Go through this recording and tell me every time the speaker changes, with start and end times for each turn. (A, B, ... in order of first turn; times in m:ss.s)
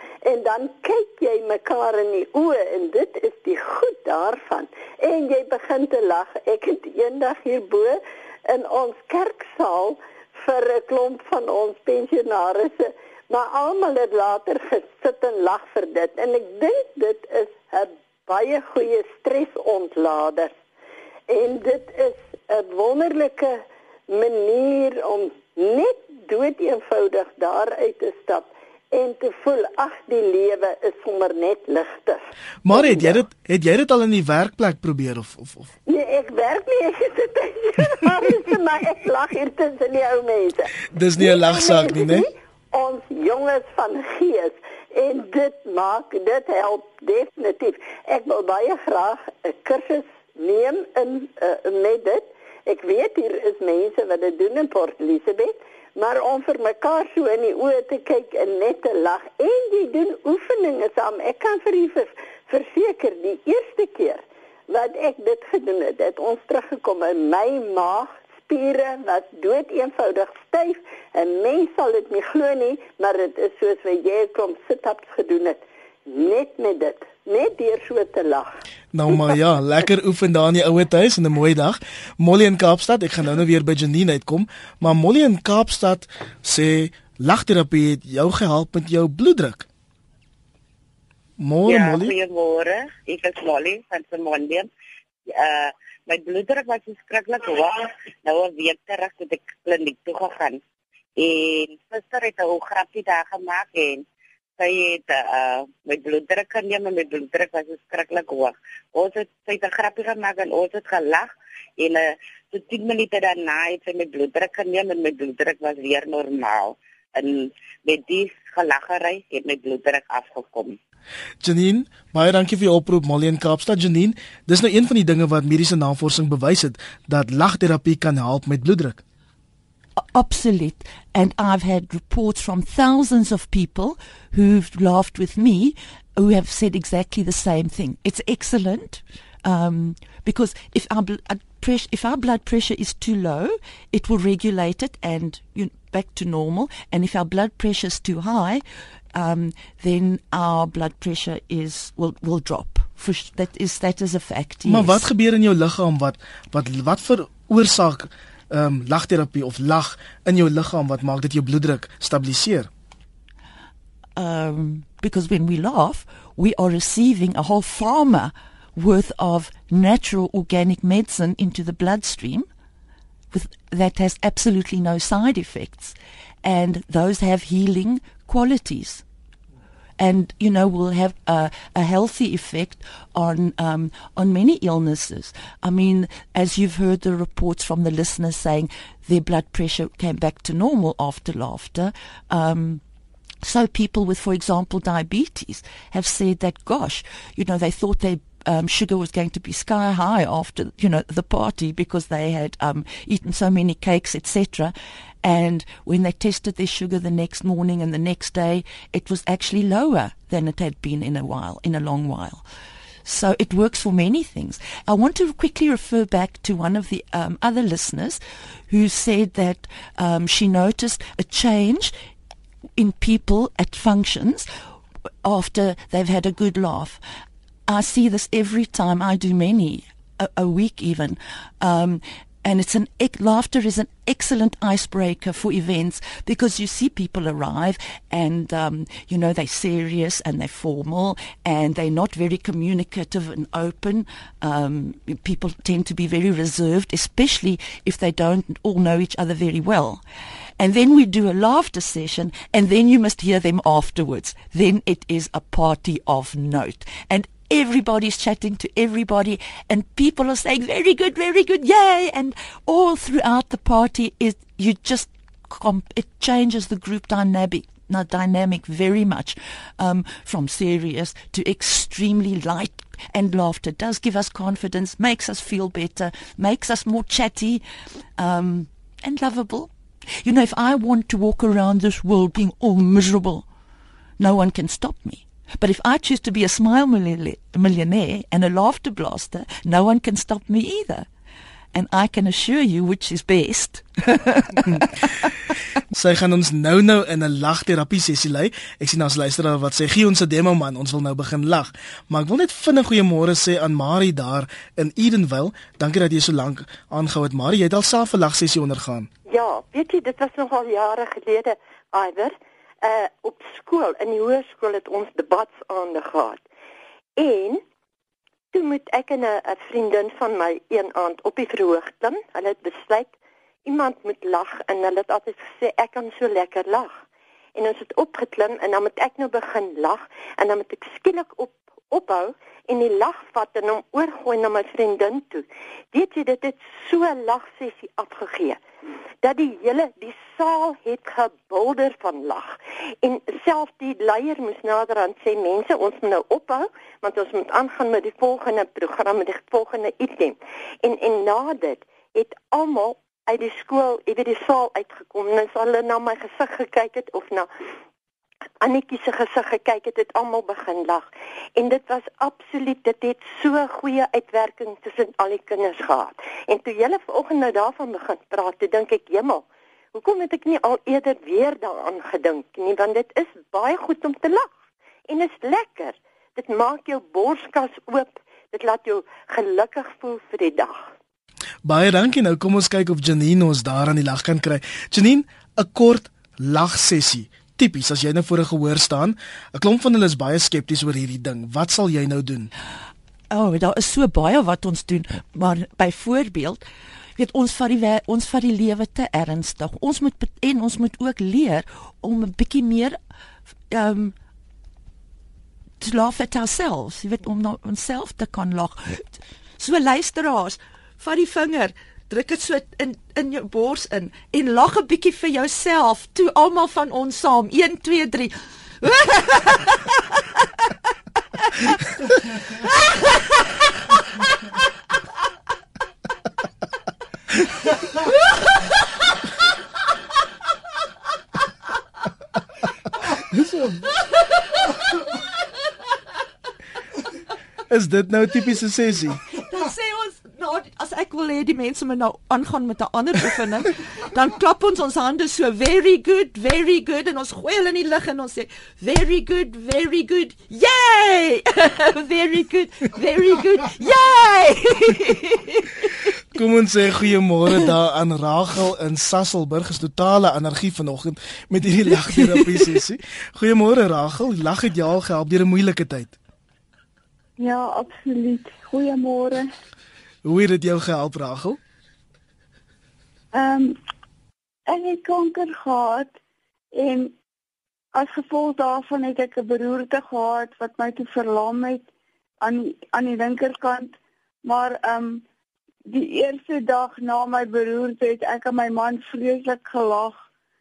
0:00.2-0:20.5 A
0:21.3-0:33.2 A
0:32.6-0:35.7 B
0:35.9-1:18.5 A
0:40.9-0:42.3 B
1:18.9-1:29.7 B
1:31.4-1:32.1 B
1:31.7-1:34.7 C
1:35.4-1:40.6 C
1:41.2-1:44.0 C
1:44.6-2:00.8 C
2:01.4-2:09.0 B
2:10.0-2:35.0 D
2:34.7-2:42.7 B
2:44.2-2:52.5 D
2:53.3-2:59.0 D
3:00.0-3:12.8 D
3:13.4-3:32.4 D
3:33.0-3:41.9 D
3:42.8-3:44.5 D
3:45.2-3:47.0 D
3:47.7-4:10.0 D
4:10.6-4:37.6 D
4:38.2-4:43.4 D
4:44.2-4:51.1 D
4:51.7-4:55.0 D
4:55.9-5:09.1 B
5:09.3-5:16.4 E
5:17.2-5:17.6 E
5:18.5-5:23.1 E
5:23.6-5:26.9 E
5:27.6-5:38.6 E
5:39.2-5:57.5 E
5:58.6-6:14.5 E
6:15.1-6:20.8 E
6:21.6-6:32.5 B
6:33.3-6:36.6 D
6:37.2-6:43.0 D
6:43.7-6:44.2 D
6:45.8-7:00.5 D
7:01.5-7:01.8 D
7:13.3-7:13.8 B
7:17.7-7:19.2 B
7:19.3-7:35.9 D
7:36.4-7:46.2 B
7:47.4-7:49.5 F
7:50.3-7:51.6 B
7:53.3-7:53.8 F
7:54.7-7:56.1 F
7:56.7-7:57.2 F
7:57.9-8:01.9 F
8:02.4-8:05.2 F
8:05.9-8:10.2 F